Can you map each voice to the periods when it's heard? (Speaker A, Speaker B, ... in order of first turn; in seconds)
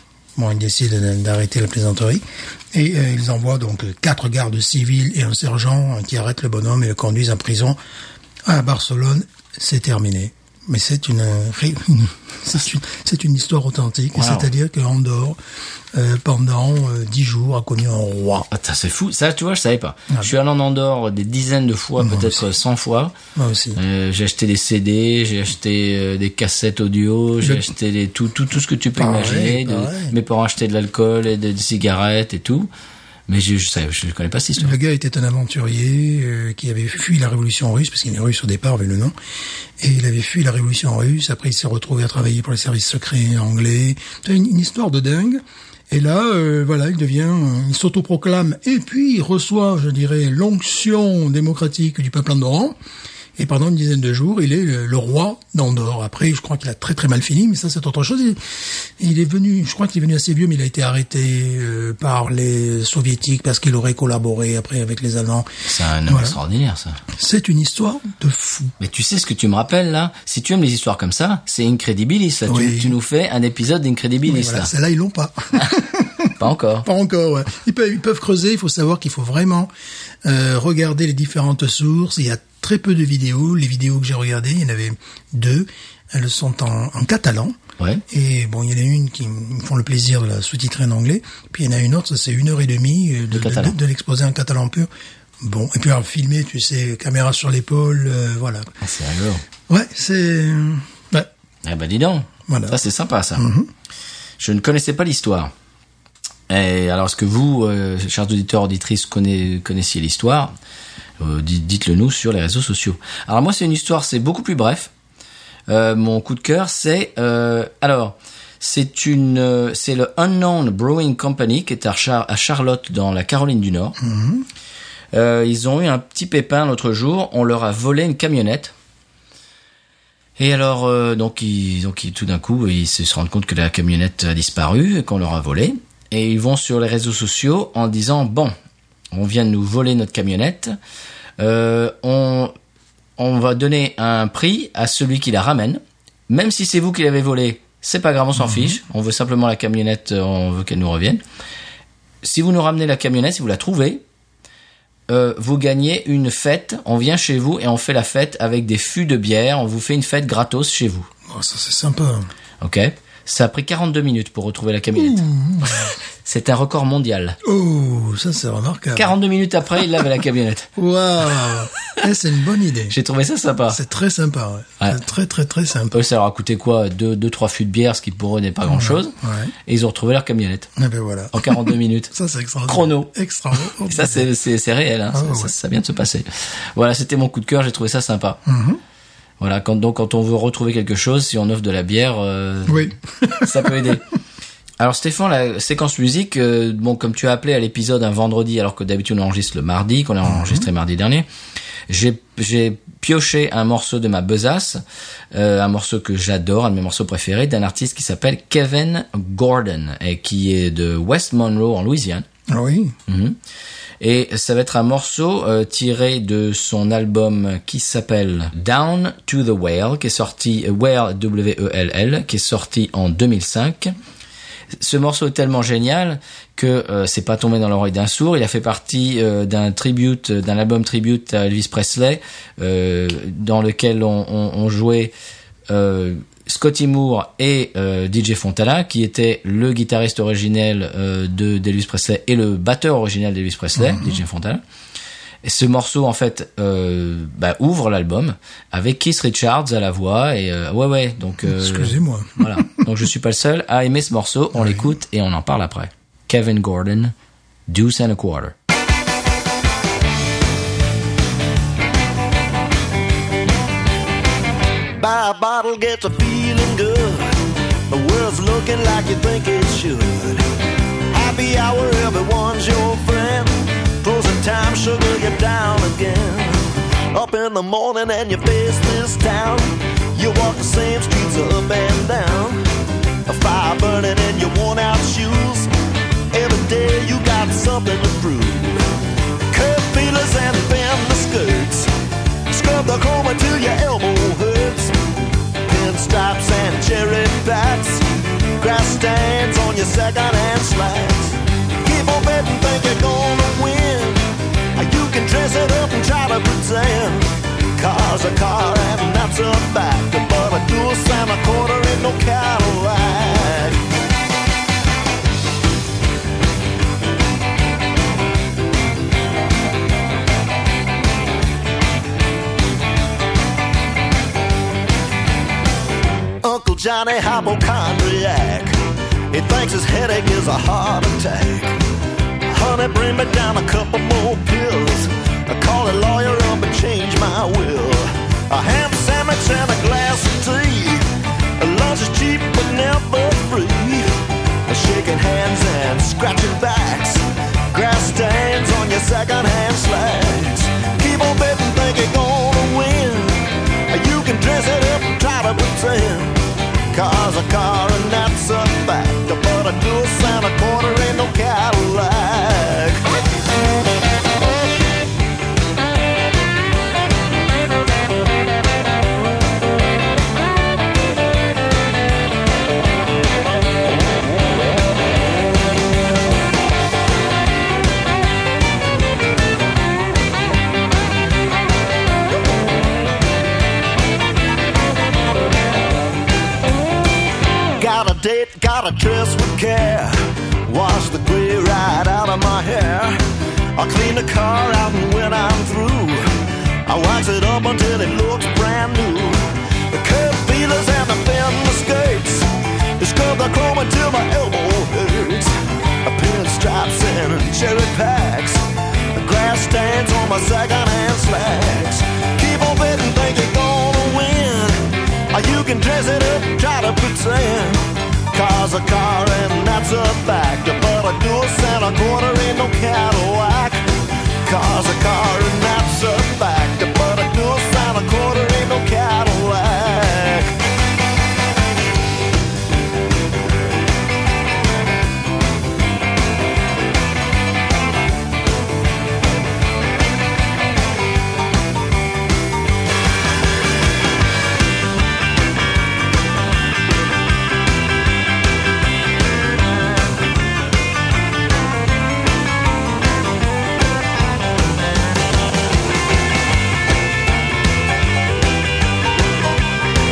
Speaker A: 0.3-7.8, 8.4-15.4, 15.9-18.5, 22.0-22.4, 23.3-23.8, 27.4-27.7, 28.9-30.1, 34.6-39.1, 39.8-52.8, 53.4-65.5, 66.1-66.4, 67.1-68.7, 72.5-73.0, 74.2-79.7, 80.2-87.6, 88.1-94.9, 95.4-98.7, 99.7-101.3, 102.5-102.8, 103.3-103.7, 124.0-124.5, 148.4-148.8, 161.3-162.3, 165.0-165.9, 167.4-169.1, 170.8-172.9, 173.7-176.0, 178.7-179.5, 180.8-184.3, 185.1-185.5, 188.4-188.8, 192.7-193.9, 200.3-200.6, 212.5-212.9, 243.8-244.2, 251.4-252.8, 254.5-254.8
Speaker B: 14.2-14.5, 18.5-23.1, 23.7-32.7, 33.3-34.7, 65.7-67.0, 68.8-74.7, 76.4-76.8, 93.3-93.7, 98.8-99.4, 101.6-103.5, 104.4-105.5, 106.5-110.5, 111.2-114.9, 115.7-124.0, 125.1-128.7, 130.4-138.5, 139.1-140.7, 141.4-142.5, 143.2-151.2, 152.2-154.0, 155.1-161.1, 162.6-165.2, 166.2-167.4, 168.9-170.7, 172.9-173.8, 175.9-179.1, 179.7-180.7, 181.3-182.1, 182.7-183.1, 183.8-188.4, 189.4-194.1, 194.8-201.2, 201.9-204.8, 205.3-212.2, 213.1-213.4, 214.0-223.9, 224.8-235.1, 235.7-244.6, 245.4-257.1, 257.7-258.5
Speaker C: 264.9-267.3, 267.9-270.4, 271.1-282.6, 283.2-285.7, 286.3-288.8, 289.5-291.9, 292.5-294.9, 295.6-313.8, 326.4-328.8, 329.3-331.8, 332.5-341.1, 341.6-344.1, 344.6-356.4, 356.9-363.0, 387.8-393.2, 393.8-396.3, 396.8-405.5, 406.0-423.9, 424.4-430.5